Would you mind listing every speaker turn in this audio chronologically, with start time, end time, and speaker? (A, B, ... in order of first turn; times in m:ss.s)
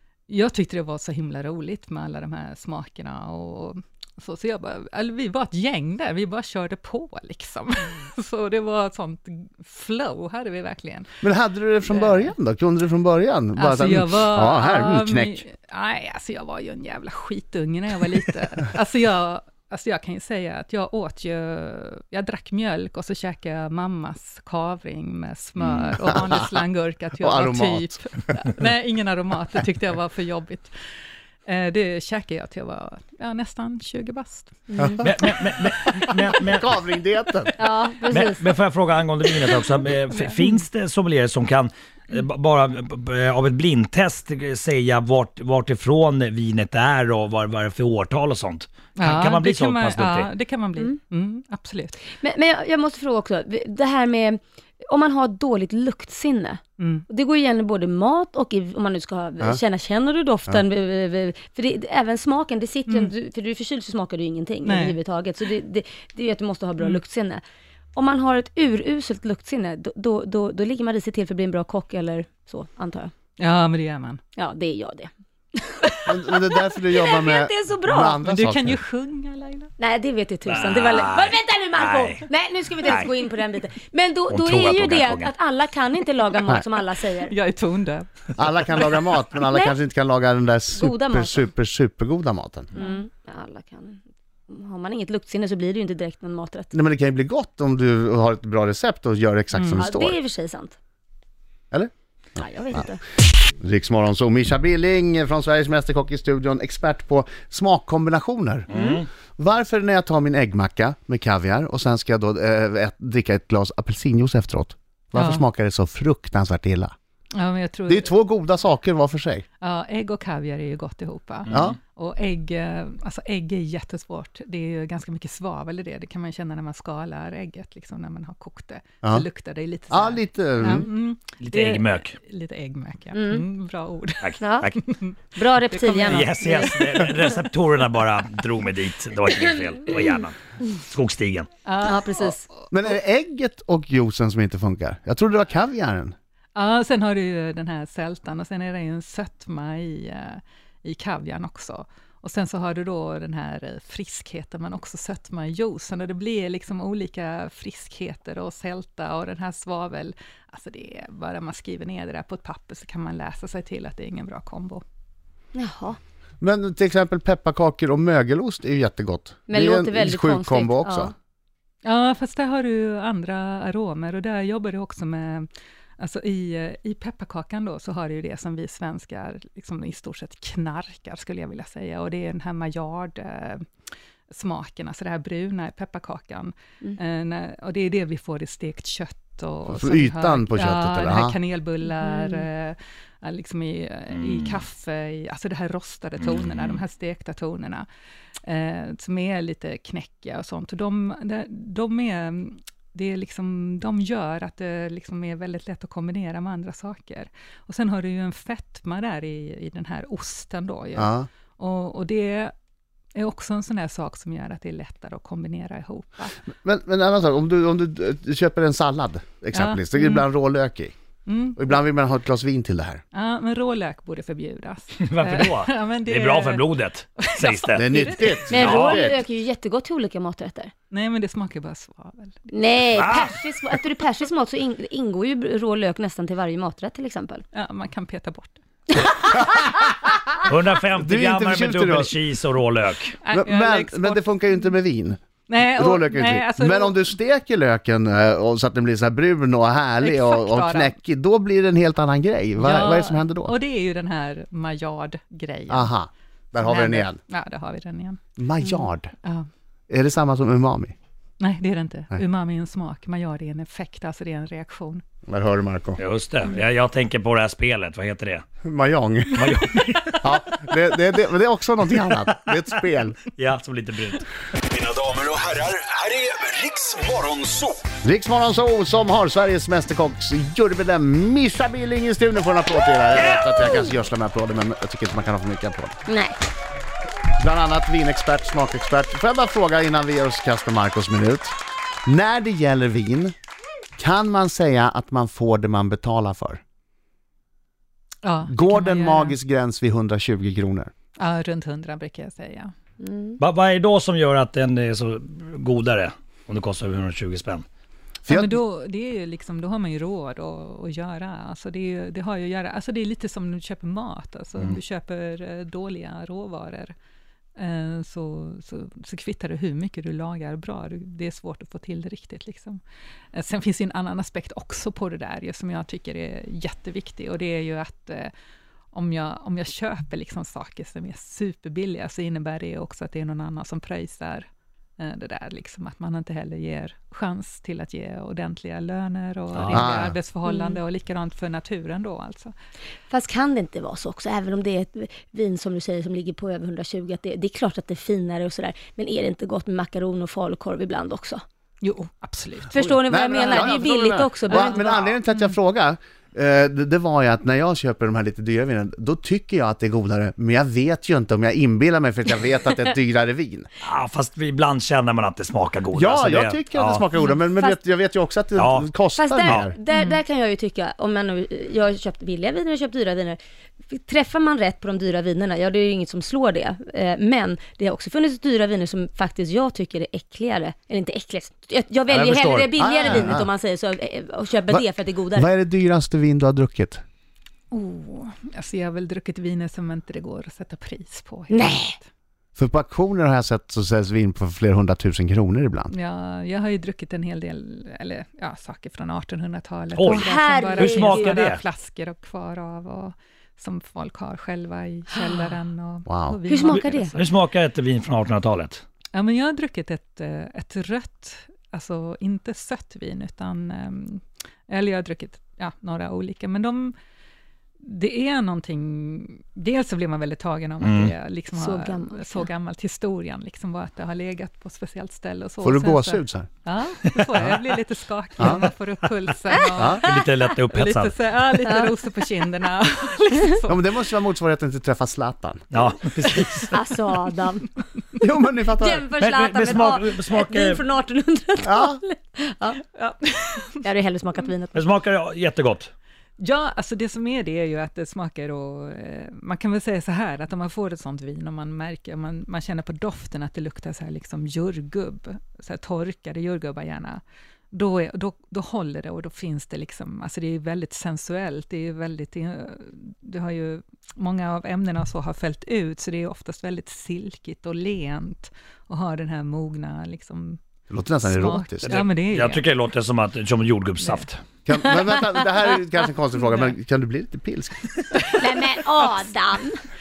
0:00.3-0:11.1 A
0:11.2-0:15.4 B
0:11.9-0:12.3 A
0:13.6-0:30.7 A
0:27.2-0:28.4 B
0:31.4-0:34.7 A
0:34.7-0:35.0 C
0:34.8-0:35.3 B
0:35.0-0:36.7 D
0:36.4-0:37.5 B
0:37.6-0:38.6 C
0:38.1-0:50.3 D
0:49.0-0:52.1 A
0:52.1-1:07.4 C
0:56.8-0:57.1 A
1:04.6-1:05.0 A
1:08.0-1:13.1 C
1:13.4-1:14.2 A
1:14.4-1:18.2 C
1:16.0-1:18.8 B
1:18.2-1:19.7 A
1:19.8-1:27.3 C
1:20.5-1:22.2 D
1:22.8-1:23.1 D
1:24.3-1:25.3 D
1:27.1-1:28.1 A
1:28.4-1:32.7 B
1:29.5-1:29.8 C
1:30.8-1:31.5 C
1:32.8-1:36.7 C
1:36.7-1:40.2 B
1:39.5-1:39.8 A
1:39.8-1:40.8 C
1:41.7-1:42.9 B
1:42.4-1:43.0 C
1:43.6-1:56.9 B
1:48.7-1:49.1 D
1:48.7-1:49.0 C
1:55.1-1:55.4 A
1:57.3-1:58.1 A
1:57.9-1:59.4 B
1:59.6-2:16.7 A
2:01.5-2:01.8 D
2:01.5-2:01.8 B
2:09.9-2:10.9 B
2:11.4-2:12.1 D
2:13.1-2:13.4 C
2:14.2-2:14.8 D
2:14.4-2:14.7 C
2:15.4-2:16.7 C
2:16.0-2:21.5 D
2:21.6-2:22.6 A
2:21.8-2:22.4 C
2:22.7-2:26.2 B
2:26.5-2:44.8 A
2:45.5-2:46.0 C
2:46.4-2:51.1 B
2:49.5-2:51.1 C
2:51.8-2:55.5 A
2:56.0-3:03.6 A
3:04.3-3:17.9 A
3:09.7-3:11.4 B
3:11.8-3:12.5 C
3:14.2-3:14.6 D
3:16.2-3:16.8 D
3:18.4-3:32.5 A
3:31.0-3:31.3 B
3:33.1-3:36.4 A
3:36.5-3:40.9 B
3:39.5-3:40.3 A
3:41.2-3:41.7 A
3:41.5-3:43.0 B
3:43.1-3:48.5 A
3:45.0-3:49.0 D
3:47.7-3:49.2 B
3:48.5-3:50.7 C
3:50.9-3:52.5 A
3:52.5-3:57.5 C
3:52.9-3:53.4 D
3:57.5-3:58.6 A
3:59.3-3:59.8 C
3:59.6-4:00.1 B
4:00.4-4:03.2 D
4:00.9-4:02.1 B
4:03.2-4:04.2 A
4:03.3-4:13.5 B
4:05.5-4:07.0 A
4:10.0-4:10.9 A
4:12.6-4:15.9 A
4:15.7-4:17.2 B
4:16.6-4:19.5 A
4:18.4-4:19.1 B
4:19.9-4:20.9 B
4:21.4-4:25.0 A
4:25.3-4:26.0 B
4:26.0-4:28.4 D
4:28.6-4:33.2 B
4:29.4-4:30.4 D
4:33.4-4:34.3 D
4:34.7-4:37.8 E
4:38.0-4:46.0 B
4:43.1-4:43.7 D
4:46.0-4:46.4 C
4:47.4-4:51.5 B
4:52.0-4:53.4 B
4:54.0-4:56.6 B
4:58.2-4:59.4 A
4:58.5-5:00.9 B
5:01.2-5:02.7 A
5:03.0-5:03.4 C
5:03.4-5:07.6 D
5:08.2-5:08.6 B
5:08.3-5:16.9 A
5:17.6-5:22.8 A
5:23.3-5:28.3 A
5:28.9-5:34.5 A
5:35.0-5:42.5 A
5:39.5-5:39.9 D
5:39.7-5:40.2 B
5:40.4-5:40.8 C
5:43.1-5:51.4 C
5:51.8-5:53.6 A
5:52.7-5:55.0 C
5:53.0-6:03.6 B
5:54.5-5:55.5 A
6:03.8-6:07.0 D
6:05.9-6:09.8 B
6:07.5-6:07.8 C
6:08.6-6:08.9 D
6:09.2-6:25.5 C
6:09.4-6:09.7 D
6:22.1-6:23.5 B
6:24.7-6:27.0 B
6:27.7-6:32.0 A
6:31.5-6:32.0 C
6:32.6-6:35.9 B
6:35.9-6:47.3 A
6:39.9-6:41.6 D
6:40.0-6:41.5 C
6:45.1-6:45.4 C
6:46.1-6:46.7 B
6:46.4-6:47.2 C
6:47.1-6:48.8 D
6:49.1-6:56.9 A
6:57.8-7:10.0 A
7:00.8-7:01.1 D
7:01.5-7:02.5 C
7:05.6-7:06.5 B
7:08.4-7:08.6 B
7:09.5-7:10.3 C
7:09.7-7:10.1 B
7:09.9-7:11.3 D
7:10.6-7:13.8 A
7:11.6-7:11.9 C
7:13.7-7:15.6 B
7:15.7-7:16.8 D
7:16.7-7:17.7 C
7:18.2-7:19.0 B
7:18.7-7:22.8 C
7:19.2-7:20.8 D
7:21.6-7:22.0 B
7:22.9-7:23.9 A
7:23.8-7:24.9 C
7:24.7-7:25.9 D
7:26.4-7:37.2 A
7:37.7-7:50.6 A
7:50.9-7:52.0 B
7:51.2-7:52.7 A
7:51.8-7:54.4 D
7:54.0-7:54.3 A
7:54.6-7:58.3 B
7:58.2-7:59.2 A
7:58.4-7:59.8 C